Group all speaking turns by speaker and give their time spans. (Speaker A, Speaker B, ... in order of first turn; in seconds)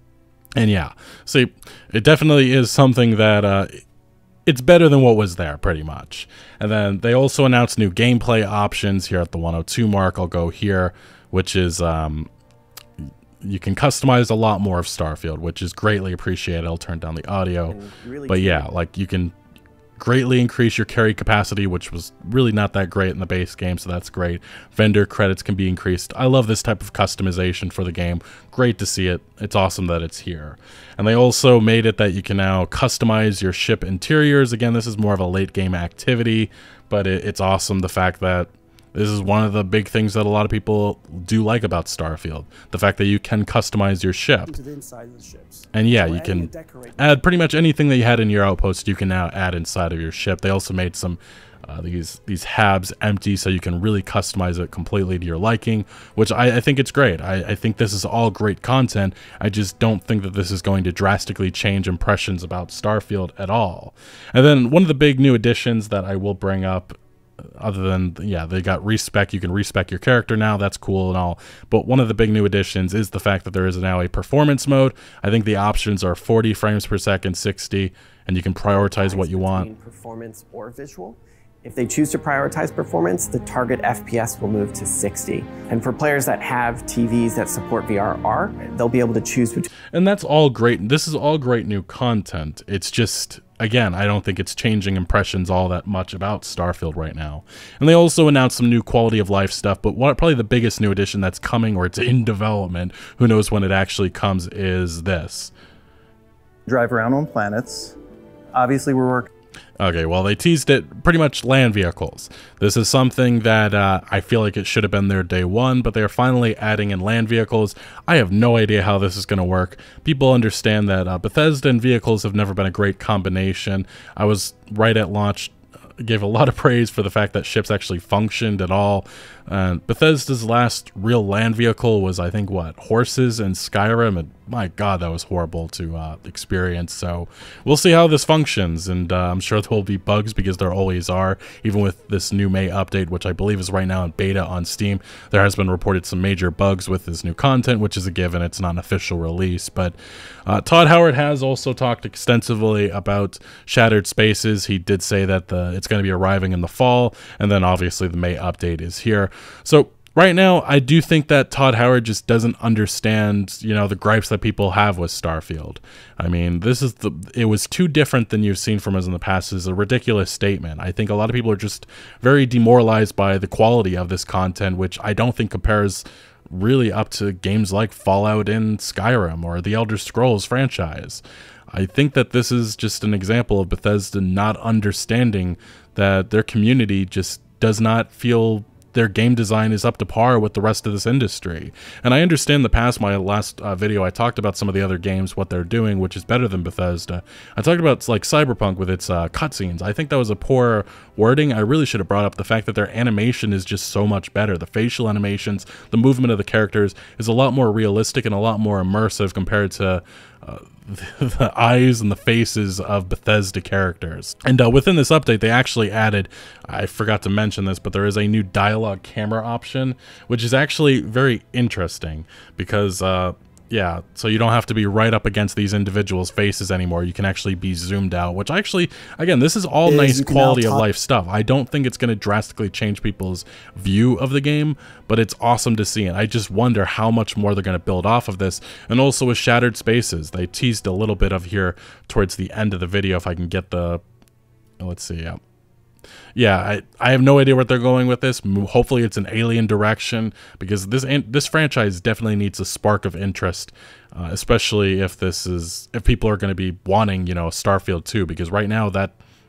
Speaker A: 0.6-3.8, 4.5-12.3, 13.4-17.8, 18.3-19.4, 20.0-44.6, 45.7-67.0, 67.6-79.7, 89.9-105.5, 109.8-244.0, 244.8-245.4, 246.3-259.2
Speaker B: 17.7-18.7, 78.7-89.7
Speaker C: 44.5-46.9, 106.7-108.0, 108.5-109.3, 229.9-230.8